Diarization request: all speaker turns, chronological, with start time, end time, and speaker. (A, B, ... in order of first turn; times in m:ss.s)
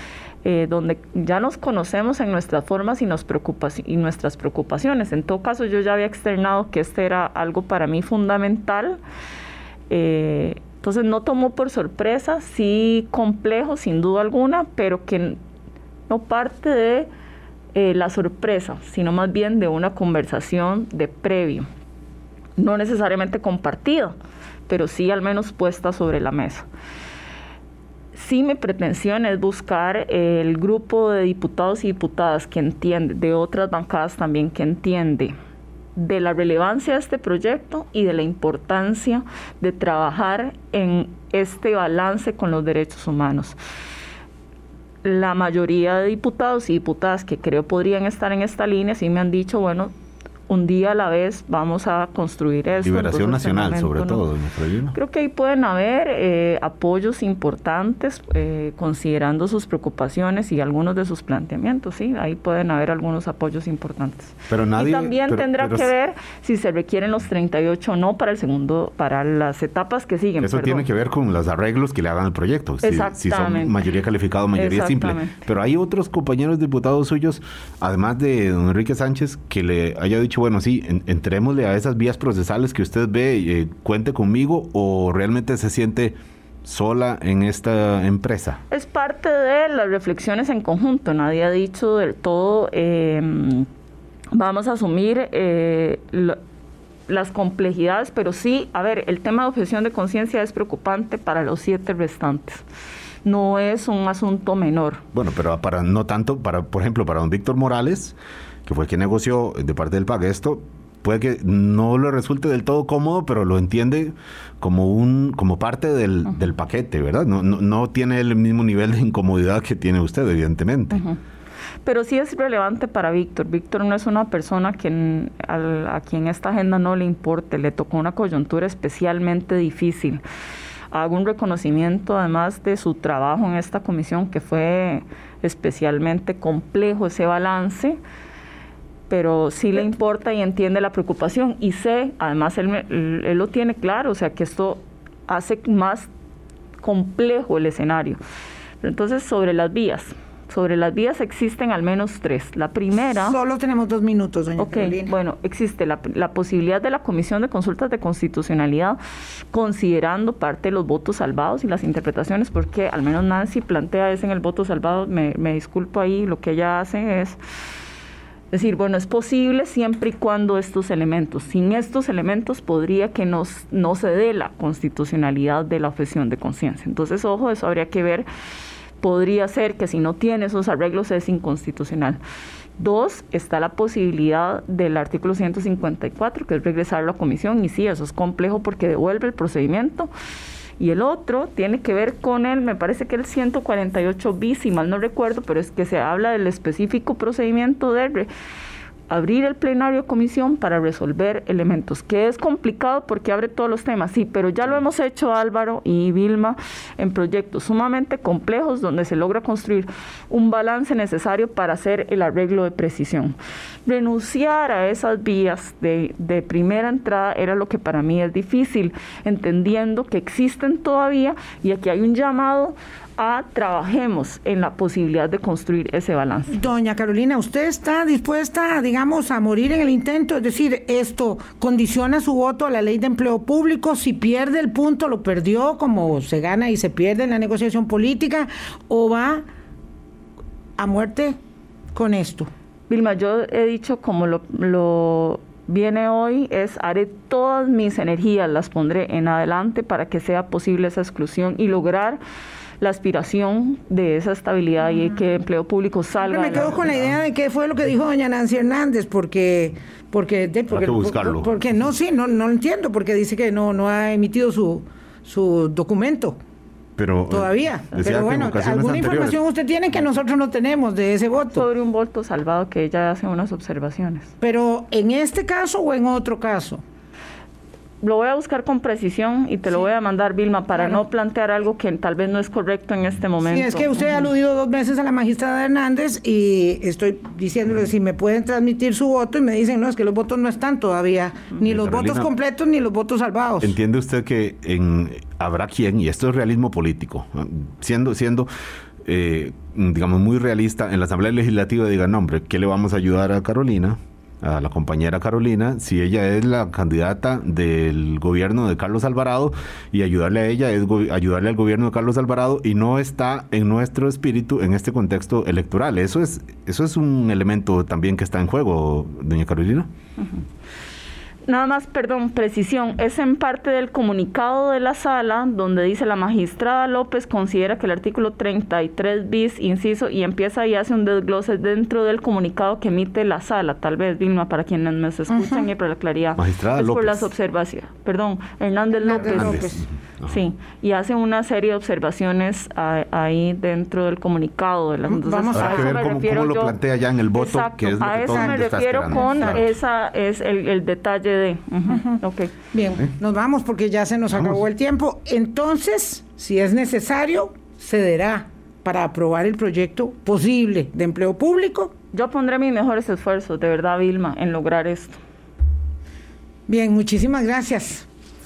0:00.4-0:09.0 A
0:09.9-0:15.4 A
0:16.1-0:17.1 A
0:17.7-0:21.7 A
0:22.6-0:24.1 A
0:24.7-0:26.6 A
0:28.1-0:35.3 A
0:36.0-0:43.6 A
0:45.0-0:49.9 A
0:50.5-0:54.2 A
0:52.8-0:54.9 B
0:54.9-1:10.8 A
1:04.5-1:05.9 B
1:10.4-1:28.6 B
1:12.8-1:13.7 A
1:14.5-1:15.3 A
1:28.7-1:33.7 A
1:34.3-1:36.4 A
1:37.1-1:42.6 A
1:43.2-1:45.0 A
1:45.1-2:01.0 B
2:00.9-2:01.2 A
2:01.9-2:10.2 A
2:10.9-2:18.0 A
2:19.1-2:26.1 A
2:26.8-2:28.2 A
2:28.8-2:33.4 A
2:33.2-2:35.1 C
2:34.6-2:39.0 A
2:39.5-2:47.4 A
2:48.5-2:58.3 A
2:59.0-3:02.2 A
3:02.8-3:10.1 A
3:10.8-3:18.3 A
3:19.1-3:46.6 A
3:46.5-3:59.4 C
4:00.8-4:01.4 C
4:01.9-4:02.5 C
4:02.9-4:12.2 A
4:12.8-4:16.9 A
4:16.2-4:26.4 C
4:16.7-4:17.2 B
4:20.7-4:21.5 B
4:27.0-4:29.4 B
4:27.3-4:31.6 C
4:31.5-4:34.3 A
4:34.4-4:36.8 C
4:38.0-4:44.2 A
4:40.7-4:41.0 C
4:43.4-4:53.7 C
4:51.6-4:52.3 B
4:53.6-4:58.5 B
4:59.0-5:19.9 B
5:21.4-5:39.7 A
5:35.3-5:35.7 C
5:36.4-5:37.3 B
5:38.9-5:39.9 C
5:39.2-5:40.4 B
5:40.3-5:46.7 A
5:45.0-5:46.0 C
5:45.5-5:49.8 B
5:47.3-5:52.5 A
5:48.3-5:49.6 C
5:51.9-5:52.2 C
5:52.7-6:01.9 C
6:02.1-6:05.2 A
6:06.7-6:08.0 C